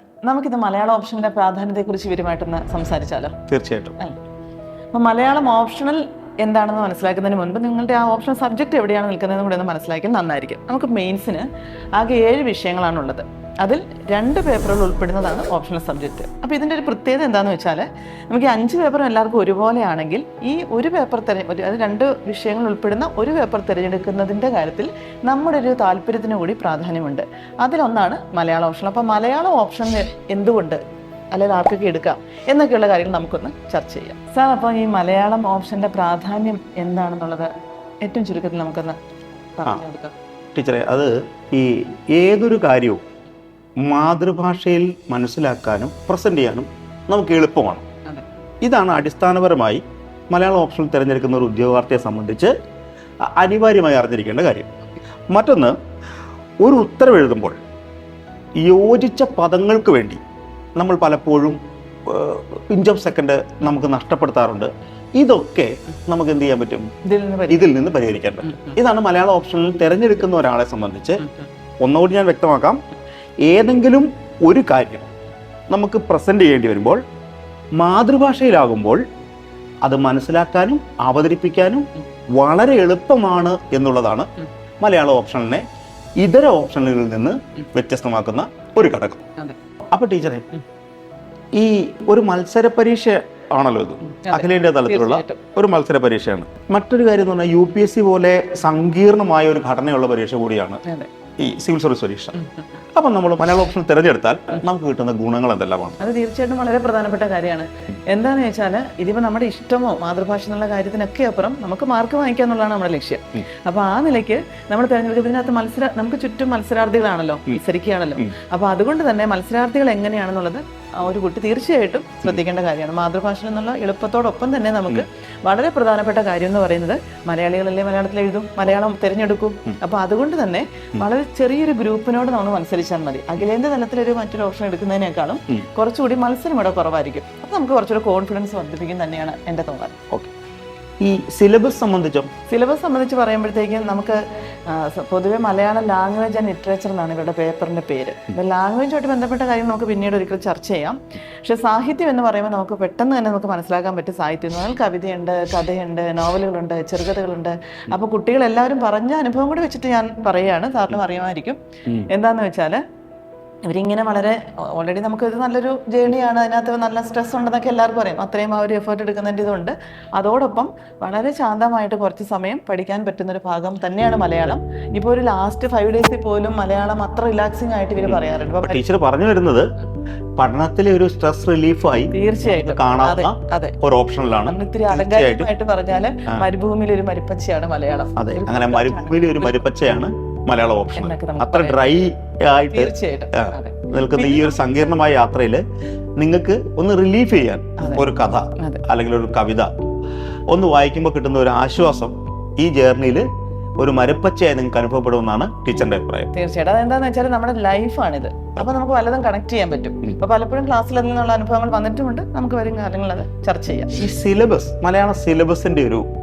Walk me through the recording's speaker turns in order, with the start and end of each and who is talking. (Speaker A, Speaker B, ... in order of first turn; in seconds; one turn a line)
Speaker A: 0.2-3.3
Speaker B: 3.5-4.0
Speaker A: 4.9-30.8
Speaker A: 31.3-37.5
Speaker A: 38.0-39.0
Speaker A: 39.6-40.1
Speaker B: 40.5-43.0
Speaker B: 43.8-47.9
Speaker B: 48.6-52.5
Speaker B: 53.2-54.7
Speaker B: 55.3-55.8
Speaker B: 56.6-57.5
Speaker B: 58.6-60.2
Speaker B: 60.8-66.9
Speaker A: 67.0-67.7
Speaker B: 67.5-71.2
Speaker B: 71.8-72.8
Speaker B: 73.4-75.1
Speaker B: 75.7-77.0
Speaker B: 77.8-79.0
Speaker B: 79.8-84.3
Speaker B: 84.8-85.6
Speaker B: 86.2-89.3
Speaker B: 89.9-90.5
Speaker B: 91.5-100.8
Speaker A: 94.1-95.4
Speaker A: 100.8-101.1
Speaker B: 101.4-102.3
Speaker B: 102.9-106.0
Speaker A: 106.0-140.0
Speaker B: 141.0-142.3
Speaker A: 142.5-162.8
Speaker A: 163.7-178.8
Speaker B: 178.6-179.7
Speaker B: 180.4-185.5
Speaker A: 182.1-183.8
Speaker A: 184.4-189.6
Speaker B: 188.2-195.6
Speaker A: 190.9-191.8
Speaker A: 192.7-194.5
Speaker B: 196.2-199.7
Speaker A: 197.8-198.1
Speaker B: 200.5-203.3
Speaker B: 203.8-206.3
Speaker A: 206.3-213.9
Speaker B: 213.9-216.1